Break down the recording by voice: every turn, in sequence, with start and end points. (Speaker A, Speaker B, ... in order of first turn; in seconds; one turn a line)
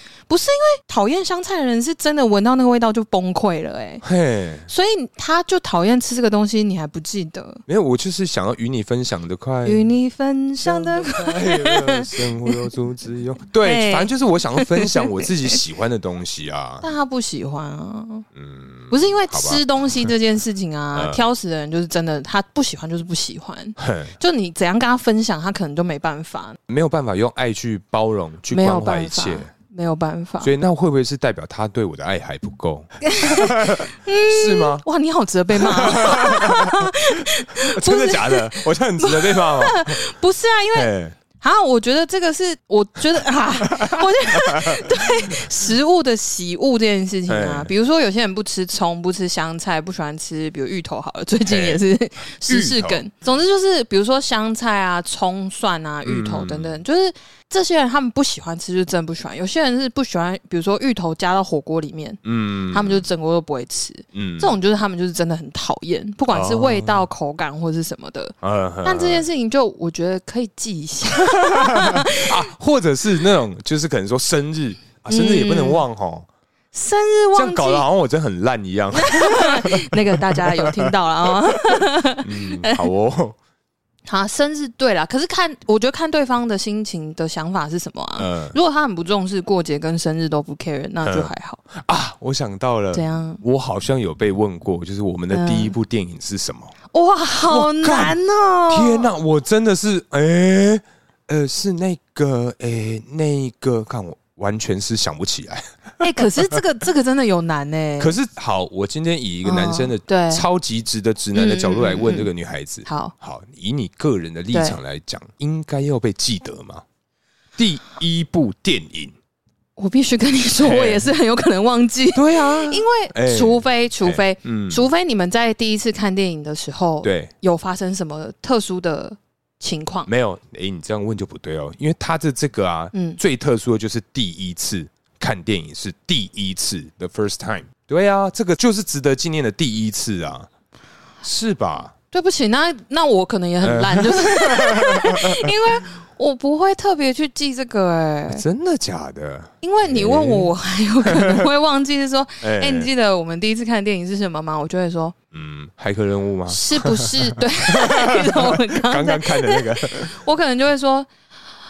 Speaker A: 0.3-4.0
Speaker B: 4.0-4.7
Speaker A: 4.7-7.6
Speaker B: 7.7-9.9
Speaker A: 9.6-12.6
Speaker B: 10.6-16.8
Speaker A: 13.6-15.3
Speaker A: 16.8-18.2
Speaker B: 18.3-20.1
Speaker A: 18.9-26.6
Speaker B: 20.9-21.2
Speaker B: 23.8-24.1
Speaker B: 26.7-29.5
Speaker A: 28.5-30.5
Speaker B: 30.4-34.8
Speaker A: 33.0-40.9
Speaker B: 35.5-40.0
Speaker B: 40.7-41.1
Speaker A: 41.4-72.5
Speaker B: 43.6-45.5
Speaker B: 47.3-47.7
Speaker B: 51.5-51.8
Speaker B: 52.5-53.0
Speaker B: 56.0-56.8
Speaker B: 62.2-63.0
Speaker B: 64.1-64.6
Speaker B: 66.3-67.1
Speaker B: 68.4-69.2
Speaker B: 71.1-76.3
Speaker A: 75.1-75.8
Speaker A: 76.7-77.8
Speaker B: 77.3-83.4
Speaker A: 78.9-82.9
Speaker A: 84.1-91.6
Speaker B: 88.2-88.5
Speaker B: 91.0-96.7
Speaker A: 92.9-93.4
Speaker A: 95.3-95.7
Speaker A: 96.9-99.1
Speaker B: 97.5-98.2
Speaker B: 98.7-106.6
Speaker A: 106.0-108.2
Speaker B: 108.0-116.8
Speaker A: 109.4-110.4
Speaker A: 111.3-112.3
Speaker A: 112.8-113.1
Speaker A: 114.5-114.8
Speaker B: 117.6-119.1
Speaker A: 119.8-130.1
Speaker B: 120.6-121.1
Speaker B: 122.1-124.8
Speaker B: 127.0-127.3
Speaker B: 130.1-140.5
Speaker A: 132.9-133.2
Speaker B: 141.2-141.9
Speaker A: 142.1-148.4
Speaker B: 143.6-145.8
Speaker B: 148.3-150.5
Speaker A: 149.6-155.1
Speaker B: 151.0-151.5
Speaker B: 152.4-152.9
Speaker B: 155.3-160.1
Speaker A: 156.5-161.1